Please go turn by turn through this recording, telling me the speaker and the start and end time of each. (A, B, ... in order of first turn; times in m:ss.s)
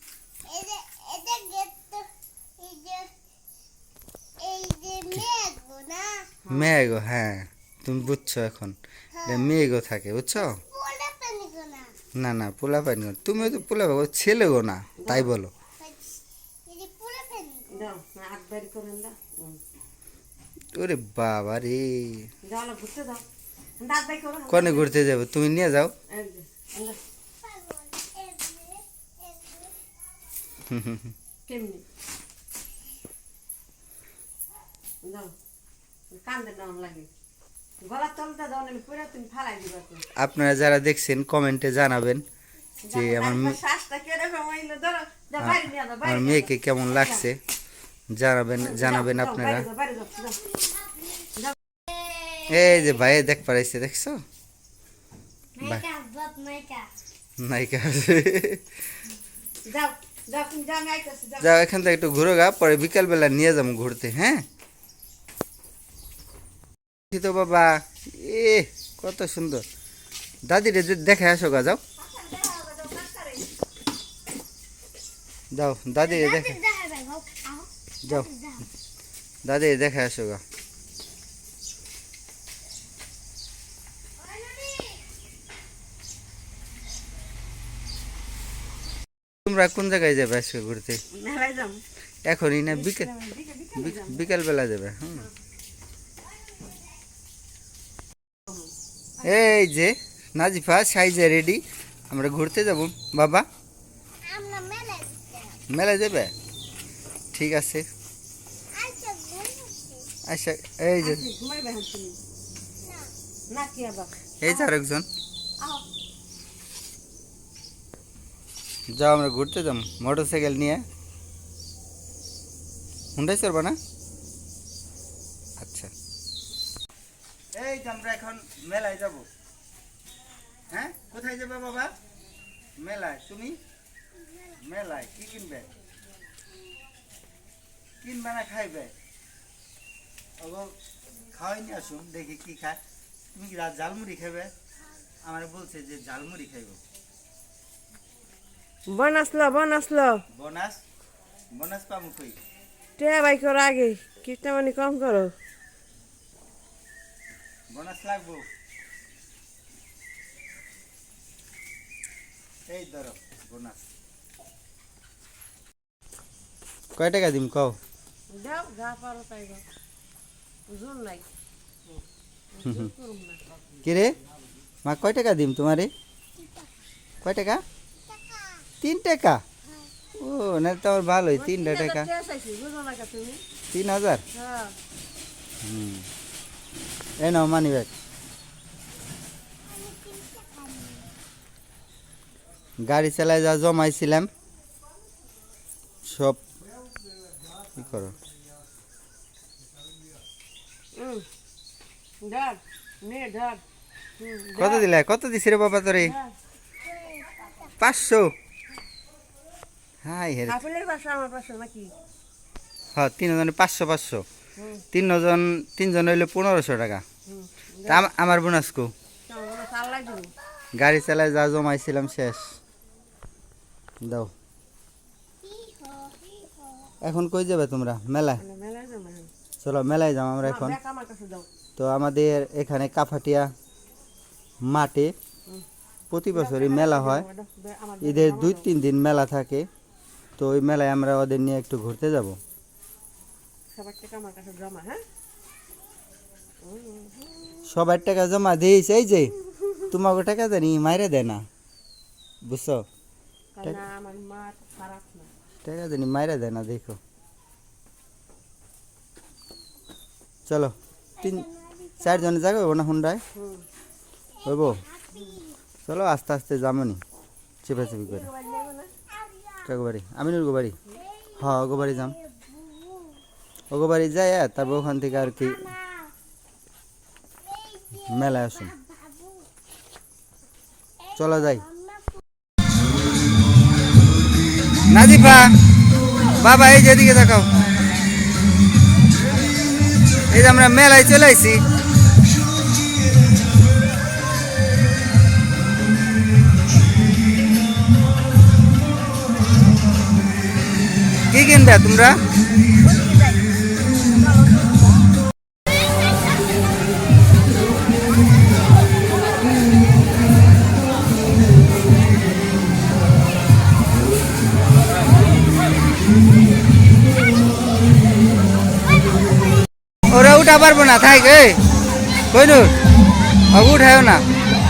0:00.4-0:02.1 A
0:02.6-0:03.1 A
0:04.4-0:06.3 A
0:06.4-0:06.7 B
0:06.5-0:10.6 C
0:10.6-0:12.0 A
0:12.2-0:15.5 C
0:13.4-0:13.6 B
0:15.0-0:15.3 B
0:15.8-0:17.8 A
0:17.7-0:19.6 B
0:20.7-0:22.3 C
0:22.4-0:23.2 B
0:23.8-0:25.0 B
0:24.5-0:25.9 C
0:26.1-0:27.0 B
0:27.4-0:29.7 A
0:30.7-0:31.1 C
0:31.4-0:31.8 B
0:35.0-0:35.3 B
0:36.1-0:37.1 B
0:37.8-0:40.0 B
0:40.1-0:42.2 C
0:42.8-0:47.2 B
0:42.9-0:43.6 C
0:45.4-0:47.4 C
0:48.1-0:49.7 C
0:48.6-0:50.5 B
0:51.9-0:52.5 A
0:52.4-0:54.2 C
0:55.6-0:55.9 C
0:55.7-0:56.9 A
0:57.4-0:58.6 C
0:59.6-1:01.5 B
1:01.4-1:04.4 C
1:07.1-1:09.6 C
1:10.4-1:11.8 C
1:12.0-1:13.5 B
1:15.5-1:16.6 C
1:16.2-1:17.6 A
1:18.0-1:18.3 C
1:18.3-1:18.6 A
1:19.4-1:20.4 C
1:29.4-1:31.0 C
1:31.1-1:31.8 B
1:32.2-1:33.1 C
1:32.7-1:34.3 B
1:33.8-1:35.3 C
1:39.2-1:43.4 C
1:44.2-1:45.6 A
1:45.7-1:46.3 C
1:47.3-1:47.8 C
1:48.7-1:50.1 A
1:50.2-1:51.2 C
1:51.0-1:52.2 B
1:52.8-1:53.1 A
1:53.5-1:54.7 B
1:54.4-1:55.1 C
1:55.6-1:55.8 B
1:59.0-2:00.8 C
2:03.2-2:03.8 C
2:05.6-2:05.9 C
2:07.5-2:09.3 C
2:10.7-2:11.9 C
2:12.8-2:13.6 C
2:14.6-2:15.7 C
2:18.0-2:18.9 C
2:20.4-2:20.7 C
2:21.3-2:22.8 C
2:23.3-2:24.5 C
2:25.2-2:26.8 C
2:28.9-2:30.2 B
2:30.3-2:30.8 C
2:31.5-2:32.4 C
2:33.0-2:35.3 B
2:37.7-2:38.4 C
2:42.7-2:43.8 C
2:47.0-2:47.8 C
2:48.3-2:49.6 B
2:50.7-2:51.2 B
2:52.5-2:53.4 B
2:52.6-2:52.9 C
2:53.8-2:54.2 C
2:54.8-2:55.9 C
2:57.2-2:57.6 C
2:58.3-2:58.7 A
2:58.8-2:59.4 C
3:00.2-3:02.1 C
3:01.3-3:03.4 B
3:03.7-3:04.2 C
3:04.3-3:04.7 B
3:05.6-3:06.1 C
3:07.2-3:07.9 C
3:09.7-3:11.1 A
3:12.8-3:14.3 C
3:16.0-3:16.4 C
3:17.7-3:18.2 C
3:20.9-3:21.3 B
3:22.2-3:23.6 B
3:24.2-3:24.9 B
3:24.6-3:26.1 C
3:26.0-3:26.3 B
3:26.9-3:27.6 A
3:27.8-3:28.3 C
3:30.0-3:30.6 C
3:30.5-3:31.9 B
3:32.9-3:34.2 C
3:34.6-3:34.8 B
3:34.9-3:37.0 C
3:37.2-3:38.0 B
3:37.8-3:38.9 C
3:39.3-3:40.3 B
3:40.8-3:42.6 C
3:44.0-3:44.3 C
3:45.4-3:46.9 A
3:47.0-3:48.4 C
3:48.4-3:49.3 B
3:49.6-3:50.8 C
3:50.4-3:51.5 B
3:51.8-3:53.5 C
3:54.6-3:55.1 C
3:56.1-3:57.2 C
3:56.3-3:58.7 B
3:58.0-3:59.7 C
4:00.4-4:02.4 C
4:03.7-4:05.0 B
4:06.6-4:07.6 B
4:07.7-4:09.3 C
4:09.9-4:11.4 C
4:12.4-4:12.8 C
4:13.5-4:15.3 B
4:15.6-4:17.0 C
4:20.5-4:21.5 C
4:21.2-4:22.0 A
4:22.0-4:23.2 C
4:23.3-4:23.6 B
4:24.4-4:24.8 C
4:24.9-4:25.5 A
4:25.1-4:25.4 B
4:25.8-4:27.0 C
4:27.6-4:28.3 C
4:27.7-4:28.9 B
4:29.2-4:29.6 A
4:29.6-4:30.8 C
4:31.4-4:32.2 C
4:32.1-4:33.2 A
4:33.7-4:35.7 C
4:35.8-4:36.1 A
4:37.4-4:38.0 A
4:38.0-4:38.8 C
4:38.7-4:39.5 A
4:41.2-4:41.6 C
4:41.7-4:42.1 A
4:44.9-4:45.5 C
4:46.3-4:47.6 C
4:50.3-4:51.6 C
5:01.3-5:02.2 C
5:02.8-5:05.0 B
5:20.1-5:21.6 C
5:22.3-5:22.8 C
5:23.5-5:24.2 C